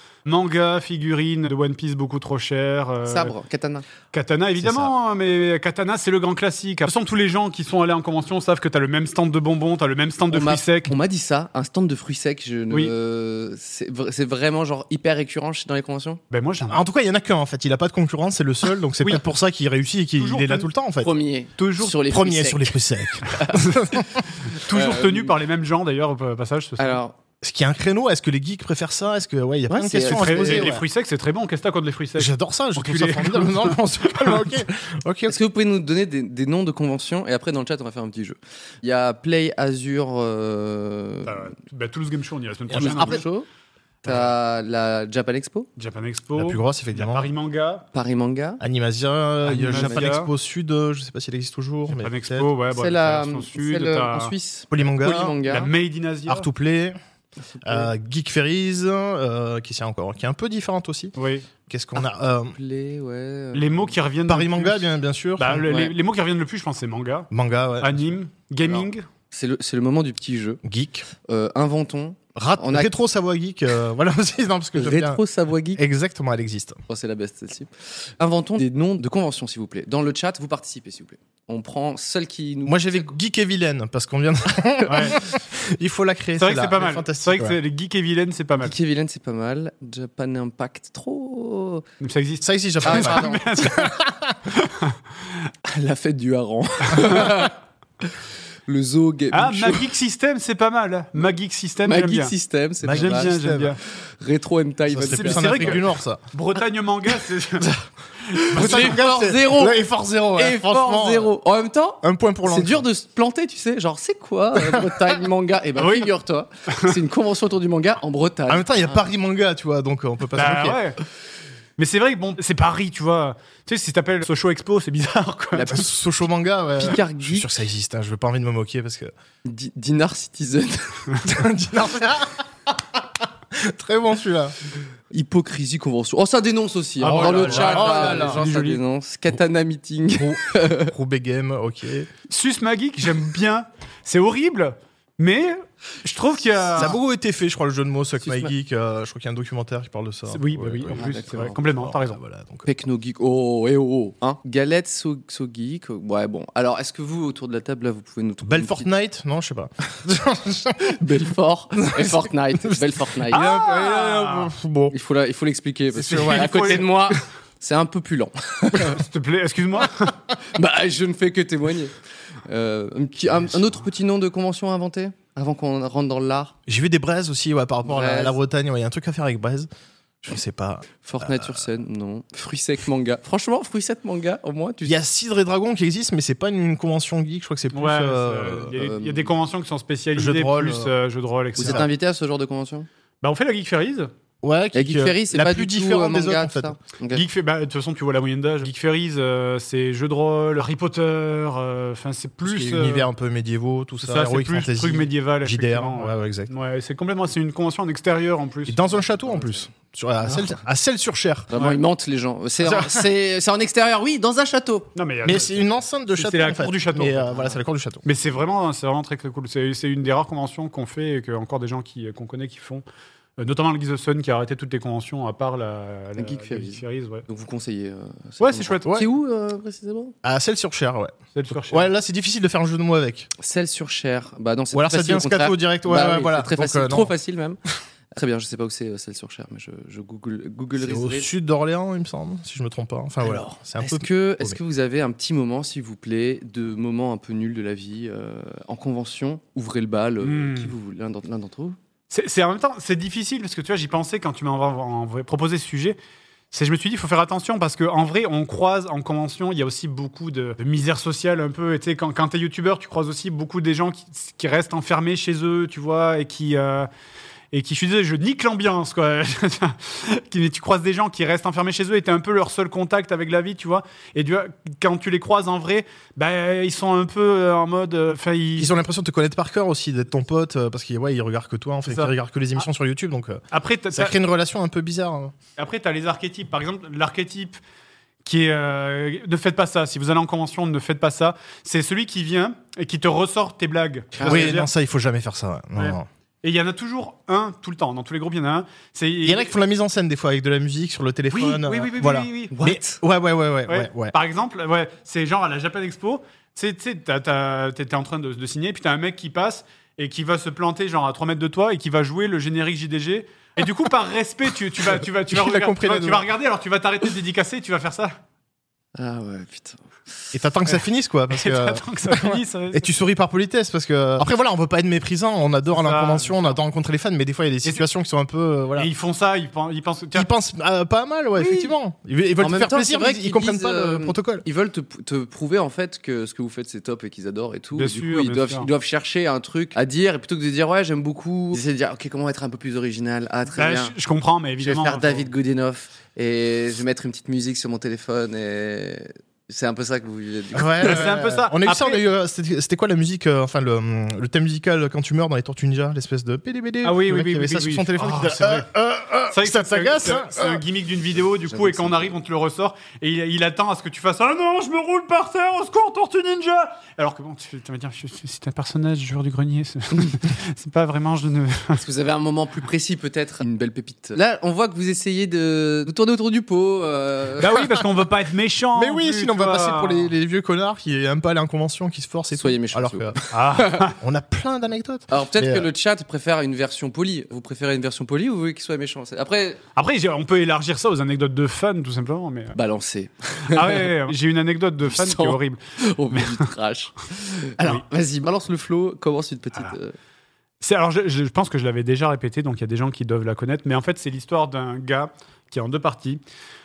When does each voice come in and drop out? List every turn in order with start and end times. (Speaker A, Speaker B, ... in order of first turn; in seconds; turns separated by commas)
Speaker A: 0.2-3.3, Speaker B: 3.0-3.9, Speaker A: 4.1-10.9, Speaker B: 10.3-16.2, Speaker A: 16.3-16.8, Speaker C: 16.7-21.1, Speaker A: 20.2-20.7, Speaker B: 21.0-23.6, Speaker A: 21.6-21.9, Speaker C: 22.0-24.2, Speaker A: 24.5-27.0, Speaker B: 24.7-25.4, Speaker B: 26.8-27.1, Speaker C: 27.4-30.8, Speaker B: 29.7-30.8, Speaker A: 30.1-34.6, Speaker C: 32.2-35.4, Speaker B: 35.3-41.5, Speaker A: 41.2-43.3, Speaker C: 42.7-43.2, Speaker B: 42.7-43.5, Speaker B: 44.0-45.7, Speaker A: 44.0-44.3, Speaker A: 45.8-47.9, Speaker C: 46.4-47.3, Speaker B: 47.9-48.6, Speaker C: 48.6-52.5, Speaker A: 49.4-50.3, Speaker B: 49.6-50.1, Speaker A: 51.9-54.3, Speaker B: 52.7-55.7, Speaker C: 54.7-55.4, Speaker A: 55.4-56.5, Speaker C: 56.2-57.0, Speaker C: 57.6-61.1, Speaker A: 61.1-61.5, Speaker C: 61.7-62.5, Speaker B: 62.0-63.9, Speaker A: 63.5-64.9, Speaker C: 64.3-65.7, Speaker A: 65.4-67.3, Speaker B: 65.6-65.9, Speaker C: 67.3-68.1, Speaker A: 67.8-69.0, Speaker B: 68.6-70.6, Speaker C: 70.6-71.0, Speaker B: 71.2-72.9, Speaker C: 72.3-75.2, Speaker B: 74.7-75.8, Speaker C: 75.8-76.8, Speaker B: 76.9-83.1, Speaker C: 82.7-87.6, Speaker A: 84.9-85.2, Speaker A: 86.4-88.7, Speaker B: 88.6-91.8, Speaker A: 92.0-95.0, Speaker C: 92.4-94.4, Speaker B: 92.8-93.6, Speaker B: 95.7-97.5, Speaker B: 98.7-99.8, Speaker A: 99.3-102.3, Speaker B: 101.8-103.3, Speaker C: 102.8-103.8, Speaker A: 102.8-103.8, Speaker B: 104.0-105.8, Speaker C: 104.9-106.2, Speaker A: 105.1-107.7, Speaker A: 108.3-109.0, Speaker B: 108.3-109.8, Speaker C: 108.5-111.3, Speaker B: 110.3-119.0, Speaker C: 112.0-112.8, Speaker A: 115.8-116.1, Speaker C: 118.5-120.8, Speaker A: 120.3-121.0, Speaker A: 121.8-125.8, Speaker B: 125.5-125.8, Speaker C: 125.7-129.1, Speaker B: 126.8-127.5, Speaker B: 129.4-131.2, Speaker C: 131.2-134.6, Speaker B: 135.1-140.9, Speaker A: 137.0-138.8, Speaker C: 137.1-138.4, Speaker C: 140.2-142.1, Speaker A: 142.3-147.0, Speaker C: 146.7-152.7, Speaker A: 150.3-152.2, Speaker B: 150.9-151.5, Speaker B: 152.6-158.9, Speaker C: 158.4-161.0, Speaker B: 160.8-163.5, Speaker C: 161.8-164.9, Speaker A: 163.3-164.5, Speaker B: 164.9-169.0, Speaker A: 166.0-167.1, Speaker C: 166.0-167.2, Speaker A: 168.8-170.2, Speaker B: 170.4-176.5, Speaker C: 176.7-179.7, Speaker B: 177.8-178.4, Speaker C: 180.2-181.6, Speaker B: 181.0-185.0, Speaker C: 184.8-188.8, Speaker A: 187.7-191.9, Speaker B: 188.7-189.3, Speaker C: 190.2-190.9, Speaker B: 191.6-192.9, Speaker C: 191.6-191.8, Speaker A: 193.2-194.1, Speaker C: 194.4-196.7, Speaker B: 194.7-197.2, Speaker A: 197.1-203.1, Speaker C: 202.4-206.5, Speaker A: 204.0-209.0, Speaker C: 208.7-211.5, Speaker B: 209.3-209.6, Speaker B: 210.2-210.6, Speaker B: 211.5-214.9, Speaker A: 211.5-211.8, Speaker C: 212.6-213.0, Speaker A: 214.9-217.3, Speaker C: 215.2-218.0, Speaker A: 218.0-222.8, Speaker A: 223.4-227.2, Speaker B: 226.2-230.1, Speaker A: 228.4-228.9, Speaker C: 230.2-233.3, Speaker A: 231.3-231.9, Speaker B: 233.4-237.6, Speaker C: 234.7-237.1, Speaker B: 238.1-241.3, Speaker C: 240.8-244.6, Speaker B: 243.2-251.8, Speaker A: 250.2-250.7, Speaker A: 252.1-256.0, Speaker A: 256.5-266.9, Speaker A: 267.5-278.7, Speaker C: 278.6-283.4, Speaker A: 281.9-282.6, Speaker A: 283.5-284.1, Speaker C: 283.9-285.3, Speaker A: 285.6-287.6, Speaker A: 288.2-294.7, Speaker B: 294.1-294.5, Speaker C: 294.2-296.1, Speaker A: 295.8-299.5, Speaker C: 299.2-304.1, Speaker A: 301.3-302.6, Speaker B: 302.5-303.0, Speaker A: 303.7-318.1, Speaker C: 315.3-316.2, Speaker B: 319.0-319.8, Speaker C: 320.3-328.9, Speaker A: 321.3-322.9, Speaker A: 325.7-326.6, Speaker A: 328.8-330.3, Speaker C: 330.1-334.4, Speaker B: 331.4-331.7, Speaker B: 332.4-343.9, Speaker A: 337.8-338.7, Speaker A: 343.6-345.2, Speaker B: 344.6-351.2, Speaker C: 350.5-360.6, Speaker A: 350.8-352.0, Speaker A: 356.8-358.7, Speaker A: 359.3-371.8, Speaker B: 361.5-362.1, Speaker B: 371.7-377.5, Speaker A: 377.4-380.1, Speaker C: 378.7-385.7, Speaker B: 382.3-383.8, Speaker A: 383.3-383.9, Speaker B: 385.1-389.6, Speaker A: 389.8-392.6, Speaker B: 392.5-394.1, Speaker A: 393.5-395.6, Speaker B: 394.9-399.9, Speaker A: 396.1-396.4, Speaker A: 400.6-406.2